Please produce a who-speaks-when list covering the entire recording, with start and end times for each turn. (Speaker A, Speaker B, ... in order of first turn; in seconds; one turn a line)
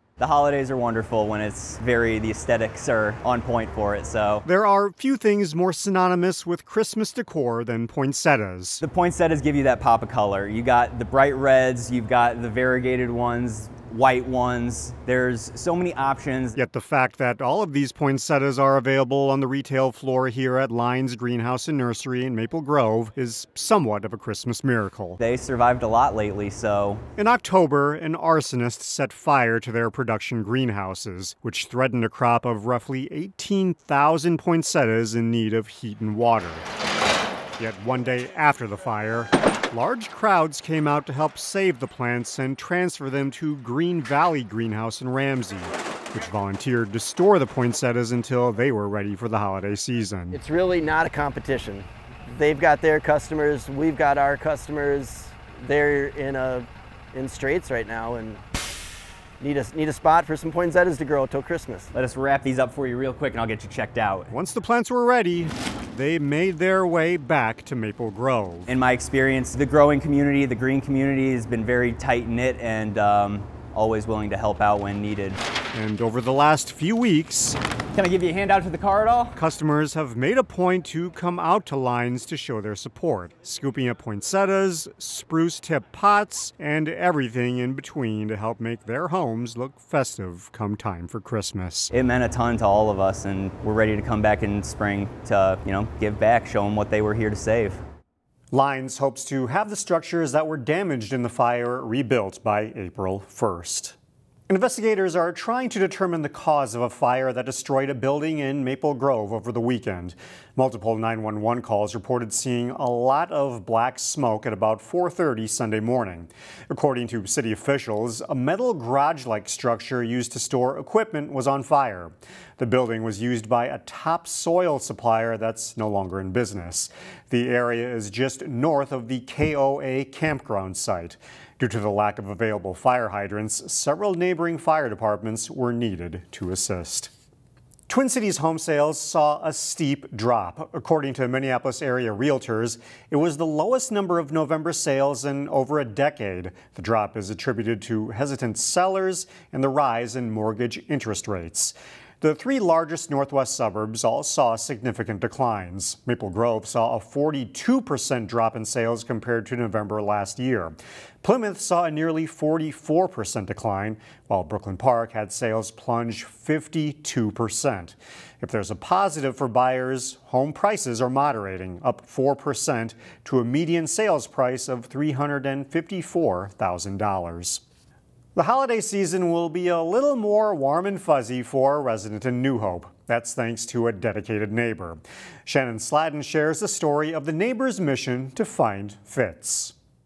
Speaker A: 0.2-4.4
Speaker B: 4.5-8.8
Speaker A: 8.8-16.6
Speaker B: 16.6-25.2
Speaker A: 25.2-27.0
Speaker B: 27.2-36.7
Speaker B: 37.6-50.4
Speaker C: 50.3-58.4
Speaker C: 59.4-61.9
Speaker A: 61.9-64.3
Speaker B: 64.3-68.7
Speaker A: 68.7-75.4
Speaker B: 75.7-77.5
Speaker A: 77.9-79.3
Speaker B: 79.3-91.9
Speaker A: 91.9-97.8
Speaker B: 98.5-104.0
Speaker B: 104.5-137.1
Speaker B: 137.9-177.6
Speaker B: 178.4-189.7